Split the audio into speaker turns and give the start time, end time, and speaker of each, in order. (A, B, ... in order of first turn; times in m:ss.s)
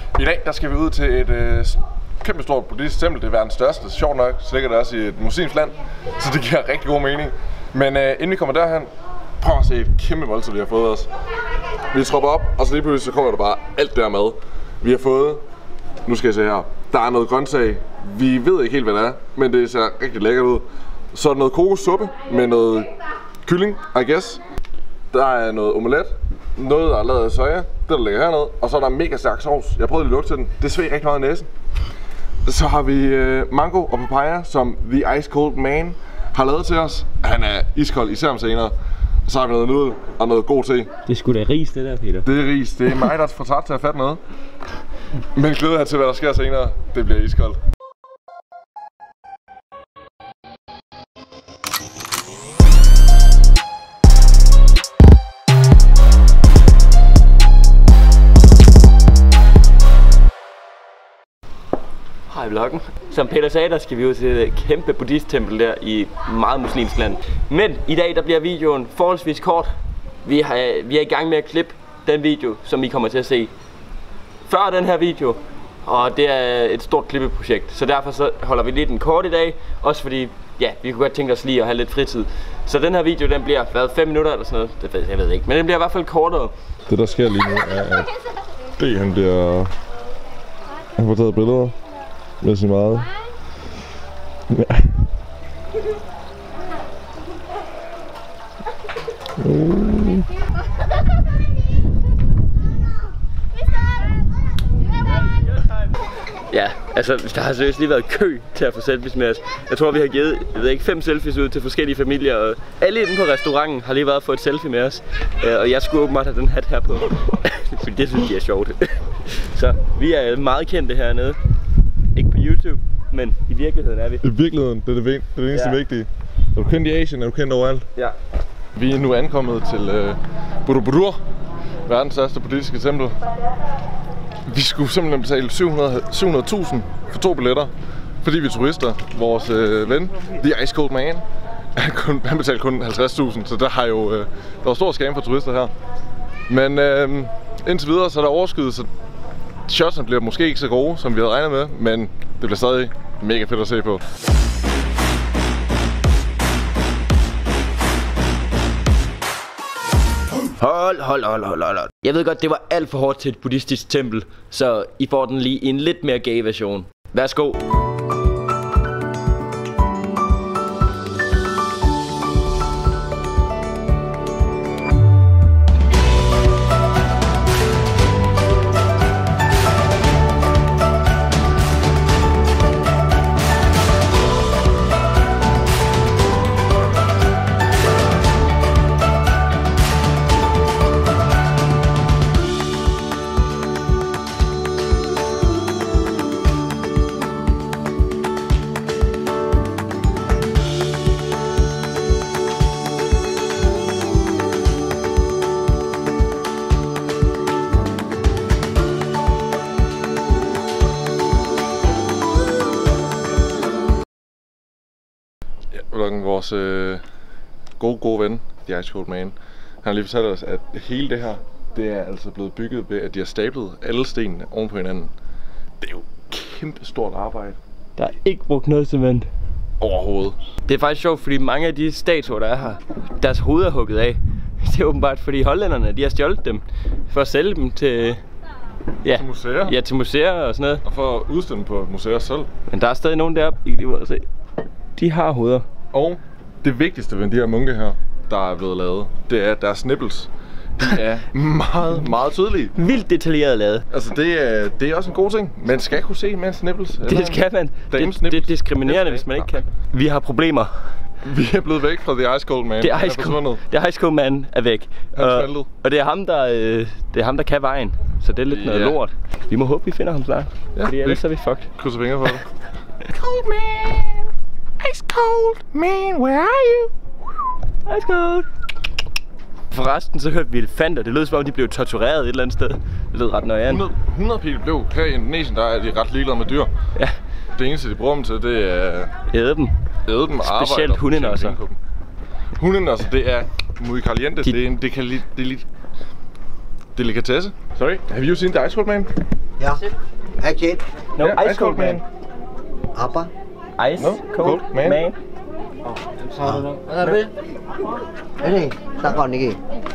0:00.2-0:11.1 A
0:11.9-0:15.4 A
0:16.0-0:22.9 A
0:23.4-0:24.4 A
0:25.1-0:31.5 A
0:32.4-0:38.7 A
0:39.2-0:40.9 A
0:41.1-0:42.2 B
0:42.2-0:44.2 A
0:45.3-0:47.6 A
1:02.3-1:09.7 B
1:10.2-1:13.5 B
1:14.4-1:26.5 B
1:26.9-1:28.1 A
1:28.8-1:29.7 A
1:31.0-1:31.8 A
1:32.4-1:33.1 A
1:34.5-1:35.0 A
1:39.4-1:40.3 A
1:46.5-2:01.4 B
2:02.1-2:04.2 B
2:04.2-2:07.9 A
2:05.5-2:05.8 B
2:08.8-2:11.2 A
2:11.9-2:13.2 A
2:14.4-2:17.7 A
2:18.2-2:21.2 A
2:21.8-2:25.7 A
2:26.5-2:28.9 A
2:29.7-2:34.0 A
2:40.6-2:47.6 B
3:35.7-3:37.0 A
3:37.8-3:45.1 A
3:45.8-3:47.6 A
3:48.0-3:49.3 B
3:49.8-3:50.4 A
3:50.7-3:58.2 B
3:59.0-4:00.8 B
3:59.1-3:59.7 A
4:00.8-4:02.5 A
4:02.7-4:04.2 B
4:05.0-4:05.7 B
4:05.9-4:12.7 A
4:12.7-4:13.8 B
4:13.9-4:19.6 A
4:17.1-4:20.7 B
4:21.2-4:23.6 A
4:22.8-4:31.7 B
4:25.1-4:25.7 A
4:28.5-4:29.0 A
4:30.8-4:31.2 A
4:31.8-4:32.4 A
4:33.0-4:36.9 A
4:37.8-4:38.5 B
4:39.7-4:43.9 B
4:43.7-4:46.7 A
4:47.6-4:49.1 A
4:49.3-4:49.7 B
4:50.1-4:51.8 A
4:50.4-4:51.6 B
4:52.6-4:55.6 A
4:56.9-4:59.1 A
4:59.6-4:59.8 C
5:00.4-5:00.8 C
5:01.2-5:02.0 B
5:01.2-5:02.0 A
5:02.9-5:03.3 C
5:03.8-5:05.2 B
5:04.0-5:05.0 A
5:06.3-5:07.3 C
5:08.4-5:09.6 C